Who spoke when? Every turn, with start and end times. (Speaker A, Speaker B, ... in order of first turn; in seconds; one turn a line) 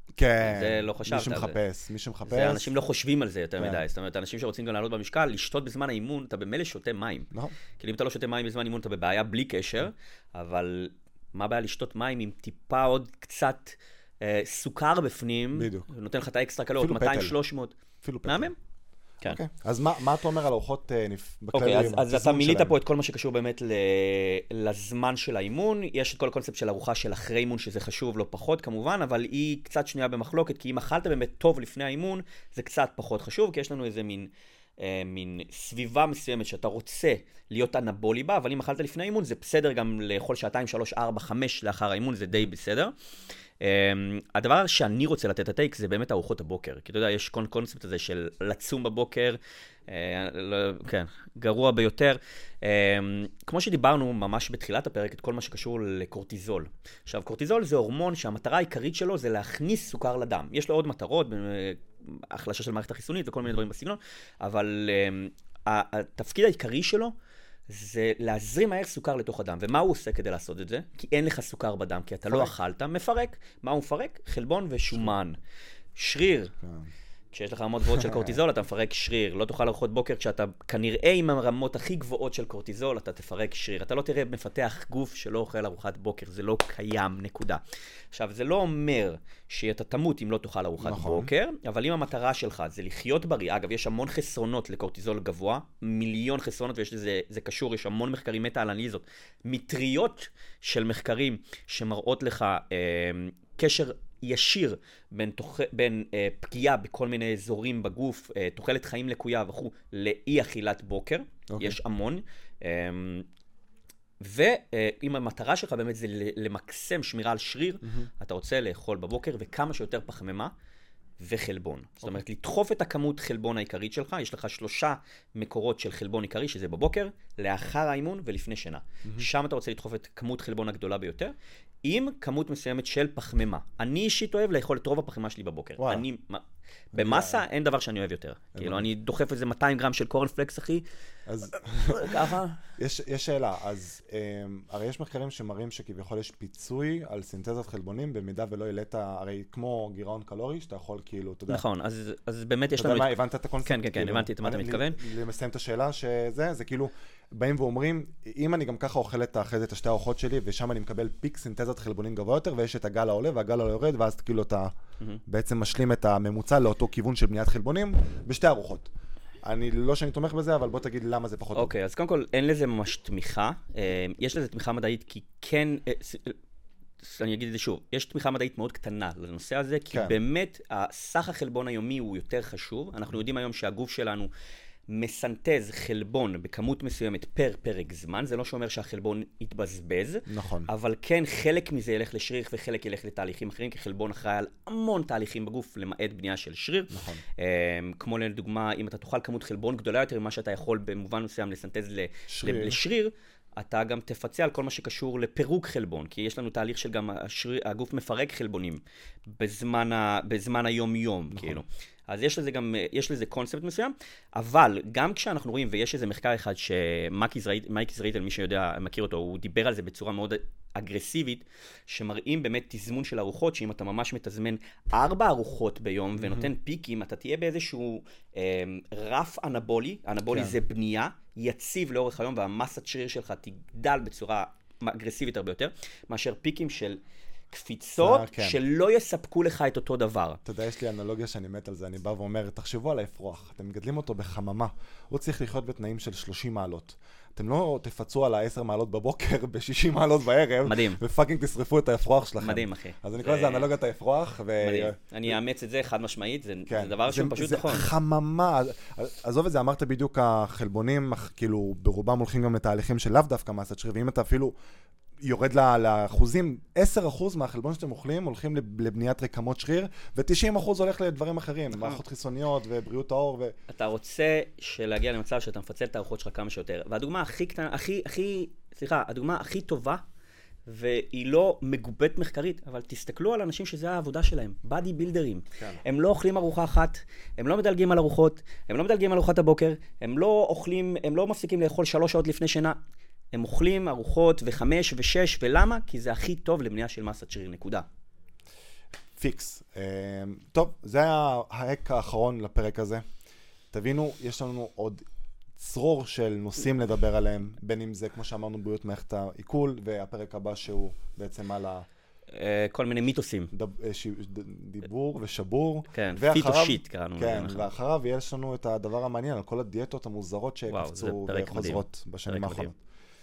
Speaker A: 0.1-2.7
Speaker B: 0.4-1.6
Speaker B: 2.3-18.6
Speaker A: 15.5-15.9
Speaker A: 16.8-17.3
Speaker A: 18.0-18.5
Speaker A: 19.2-22.8
Speaker B: 21.5-42.9
Speaker B: 43.6-67.1
Speaker B: 67.7-75.4
Speaker A: 72.3-72.5
Speaker B: 76.0-76.5
Speaker A: 76.6-76.9
Speaker B: 77.3-87.6
Speaker A: 77.9-78.4
Speaker B: 88.1-113.3
Speaker A: 90.8-91.3
Speaker A: 111.5-111.8
Speaker B: 114.2-120.5
Speaker B: 121.2-140.8
Speaker A: 135.8-136.1
Speaker A: 136.9-137.4
Speaker A: 138.5-138.9
Speaker A: 141.3-151.6
Speaker B: 141.6-142.6
Speaker B: 151.5-155.0
Speaker A: 152.8-164.7
Speaker A: 165.2-168.9
Speaker A: 169.4-171.7
Speaker B: 171.5-176.4
Speaker B: 177.0-184.3
Speaker B: 184.9-237.0
Speaker A: 190.3-190.7
Speaker A: 196.9-197.2
Speaker A: 202.3-202.8
Speaker A: 211.3-211.6
Speaker A: 226.2-226.5
Speaker A: 230.3-230.6
Speaker B: 237.5-240.4
Speaker A: 238.0-238.6
Speaker A: 240.4-255.3
Speaker B: 250.6-251.0
Speaker B: 252.4-253.7
Speaker B: 254.6-257.9
Speaker A: 256.7-264.5
Speaker A: 265.2-273.5
Speaker B: 271.7-272.0
Speaker B: 273.7-280.0
Speaker B: 280.6-292.8
Speaker B: 293.3-297.8
Speaker A: 299.2-303.0
Speaker A: 303.7-305.0
Speaker A: 305.6-311.9
Speaker B: 312.3-313.5
Speaker A: 313.5-322.8
Speaker B: 315.9-317.7
Speaker B: 320.7-322.7